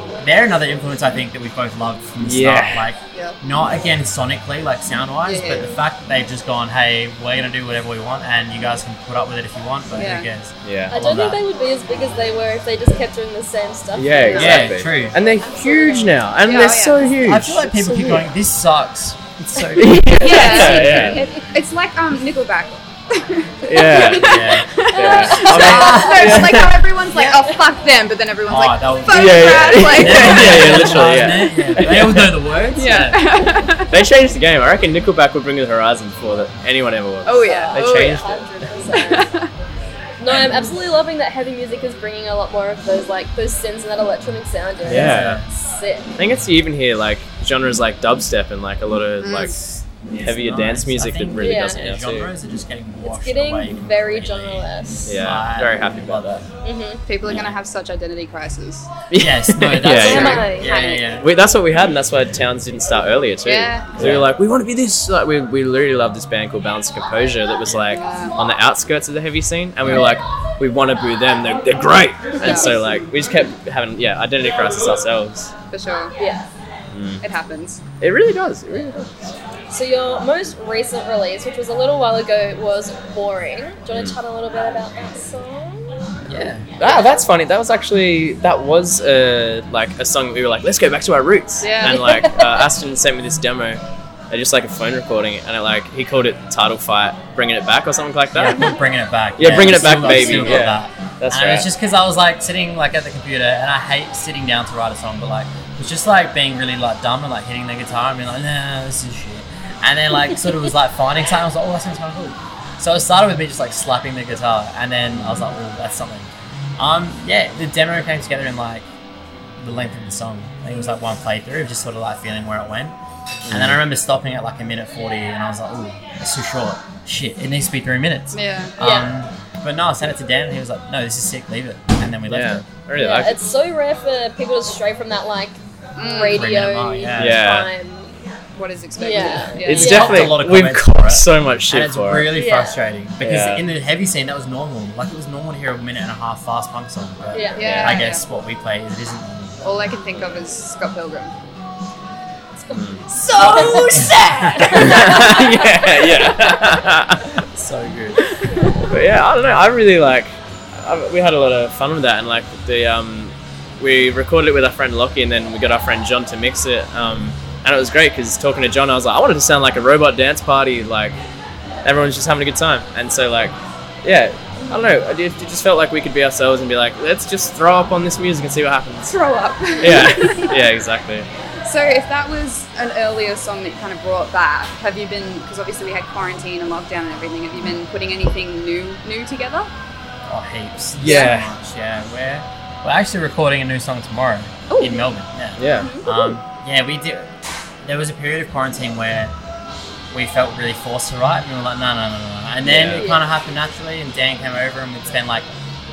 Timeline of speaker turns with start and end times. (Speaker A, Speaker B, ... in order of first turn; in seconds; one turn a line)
Speaker A: 0.2-11.4
Speaker B: 2.2-2.9
Speaker C: 3.1-3.4
Speaker C: 5.2-5.8
Speaker C: 9.9-10.3
Speaker B: 10.6-10.9
Speaker D: 10.9-16.1
Speaker B: 13.9-18.3
Speaker C: 14.3-14.7
Speaker A: 14.4-15.2
Speaker C: 16.4-17.1
Speaker A: 17.2-21.2
Speaker B: 19.7-21.2
Speaker C: 20.2-31.1
Speaker D: 20.3-21.3
Speaker B: 23.6-26.7
Speaker A: 24.1-26.6
Speaker D: 24.9-26.2
Speaker A: 27.1-27.5
Speaker A: 28.5-33.2
Speaker B: 29.1-32.4
Speaker C: 32.8-33.9
Speaker B: 33.9-38.4
Speaker C: 37.2-38.2
Speaker D: 37.4-39.3
Speaker C: 38.9-39.5
Speaker D: 40.2-46.1
Speaker A: 40.3-40.7
Speaker B: 44.8-45.4
Speaker A: 44.9-45.5
Speaker B: 46.1-49.5
Speaker C: 49.2-49.5
Speaker A: 49.6-56.4
Speaker B: 50.1-52.3
Speaker D: 51.4-51.9
Speaker D: 53.0-55.2
Speaker B: 55.0-56.5
Speaker D: 56.6-57.0
Speaker C: 57.0-58.9
Speaker B: 59.1-60.6
Speaker A: 59.2-61.3
Speaker D: 60.0-61.1
Speaker B: 61.1-75.5
Speaker C: 63.4-64.0
Speaker A: 64.0-64.2
Speaker C: 67.8-68.4
Speaker C: 72.4-72.8
Speaker C: 75.7-76.1
Speaker D: 76.2-76.5
Speaker B: 76.9-77.2
Speaker C: 77.2-77.8
Speaker B: 78.0-79.3
Speaker D: 79.7-87.2
Speaker B: 83.9-84.2
Speaker A: 86.2-86.7
Speaker B: 86.8-98.7
Speaker C: 91.6-92.2
Speaker D: 91.9-92.3
Speaker A: 98.3-118.9
Speaker B: 99.4-101.7
Speaker B: 115.1-115.5
Speaker A: 119.6-123.0
Speaker B: 123.4-123.8
Speaker A: 123.5-132.7
Speaker C: 128.3-128.8
Speaker D: 128.8-129.1
Speaker B: 132.2-133.4
Speaker D: 132.9-138.2
Speaker C: 135.9-136.4
Speaker A: 136.3-137.4
Speaker B: 137.1-137.7
Speaker C: 138.5-140.3
Speaker D: 139.0-140.2
Speaker B: 139.6-142.3
Speaker A: 139.7-149.8
Speaker D: 142.3-142.8
Speaker B: 143.2-143.6
Speaker D: 147.3-148.0
Speaker C: 147.6-148.2
Speaker B: 147.6-148.0
Speaker C: 149.6-151.3
Speaker D: 152.7-156.5
Speaker B: 152.7-157.3
Speaker A: 153.3-154.9
Speaker C: 153.4-154.1
Speaker A: 157.5-158.2
Speaker B: 158.8-171.2
Speaker B: 171.8-179.2
Speaker C: 179.1-180.5
Speaker B: 179.8-181.3
Speaker C: 181.6-189.7
Speaker A: 190.3-197.3
Speaker B: 191.0-191.5
Speaker C: 191.0-191.3
Speaker C: 194.7-195.1
Speaker B: 195.6-196.0
Speaker D: 195.7-196.1
Speaker A: 197.8-199.3
Speaker A: 200.1-205.5
Speaker B: 202.6-203.1
Speaker D: 202.9-203.2